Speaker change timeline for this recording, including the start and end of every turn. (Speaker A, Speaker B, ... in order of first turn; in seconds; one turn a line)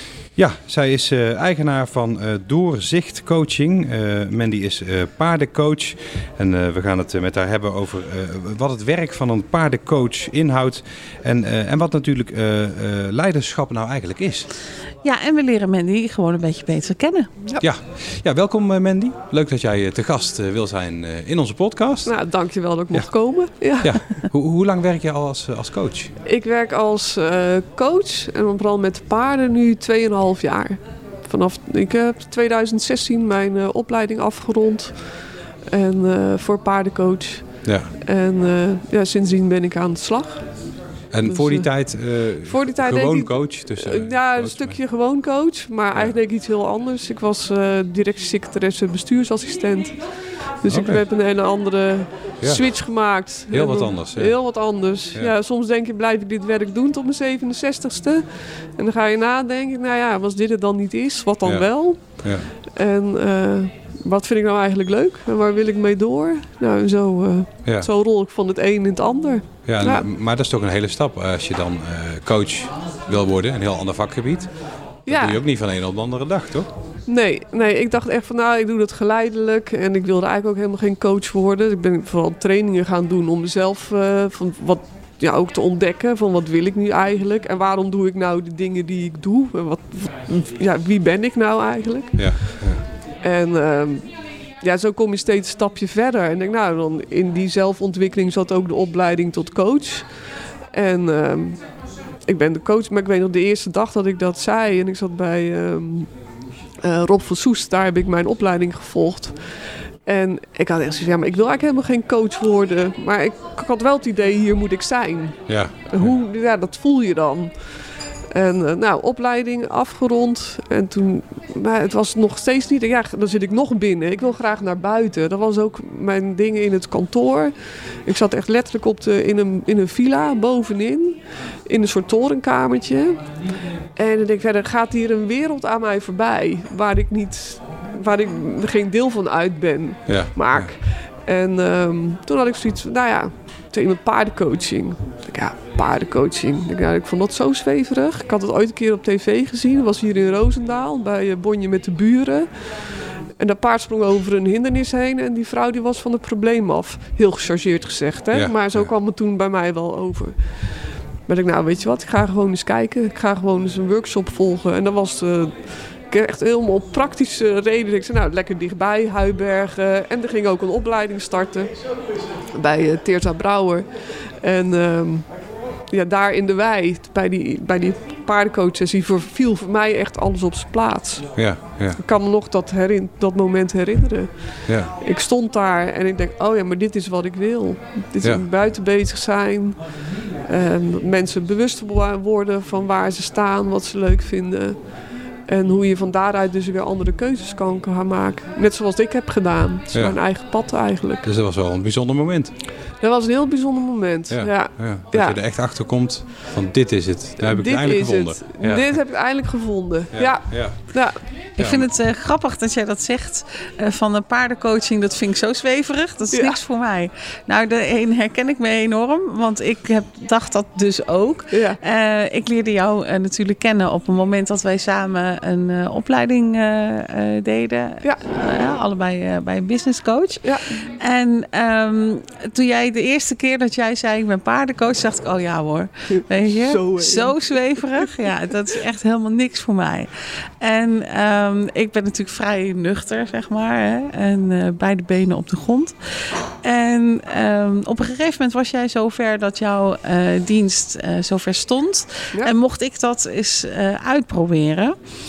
Speaker A: 0.3-14.5
Speaker B: 15.0-17.3
Speaker A: 17.6-22.1
Speaker C: 22.1-24.1
Speaker A: 23.8-26.1
Speaker C: 26.2-35.0
Speaker C: 35.7-40.4
Speaker A: 37.6-37.9
Speaker A: 41.1-44.8
Speaker C: 41.3-41.7
Speaker C: 42.4-50.0
Speaker C: 50.6-58.2
Speaker A: 50.7-51.0
Speaker A: 53.5-54.4
Speaker C: 58.8-62.2
Speaker A: 62.2-62.5
Speaker C: 62.7-70.0
Speaker A: 69.7-74.5
Speaker C: 75.0-75.4
Speaker A: 75.1-76.7
Speaker C: 77.1-92.7
Speaker A: 92.2-92.8
Speaker C: 93.2-100.2
Speaker C: 100.7-101.7
Speaker C: 102.2-106.1
Speaker C: 106.8-109.3
Speaker C: 110.0-117.7
Speaker A: 115.5-116.1
Speaker C: 118.3-127.5
Speaker C: 128.0-133.2
Speaker C: 133.9-152.5
Speaker A: 140.1-140.7
Speaker C: 153.4-160.3
Speaker A: 158.3-158.9
Speaker C: 161.3-171.7
Speaker C: 172.5-189.8
Speaker A: 181.4-182.0
Speaker A: 184.7-184.9
Speaker C: 190.5-194.8
Speaker C: 195.5-201.3
Speaker A: 199.9-200.2
Speaker A: 201.2-202.5
Speaker C: 203.0-205.4
Speaker A: 204.3-208.9
Speaker C: 207.4-211.2
Speaker A: 210.1-210.9
Speaker B: 211.6-240.1
Speaker A: 211.6-211.9
Speaker C: 216.3-216.6
Speaker C: 221.5-221.8
Speaker C: 230.4-230.8
Speaker C: 236.2-238.1
Speaker B: 240.6-255.0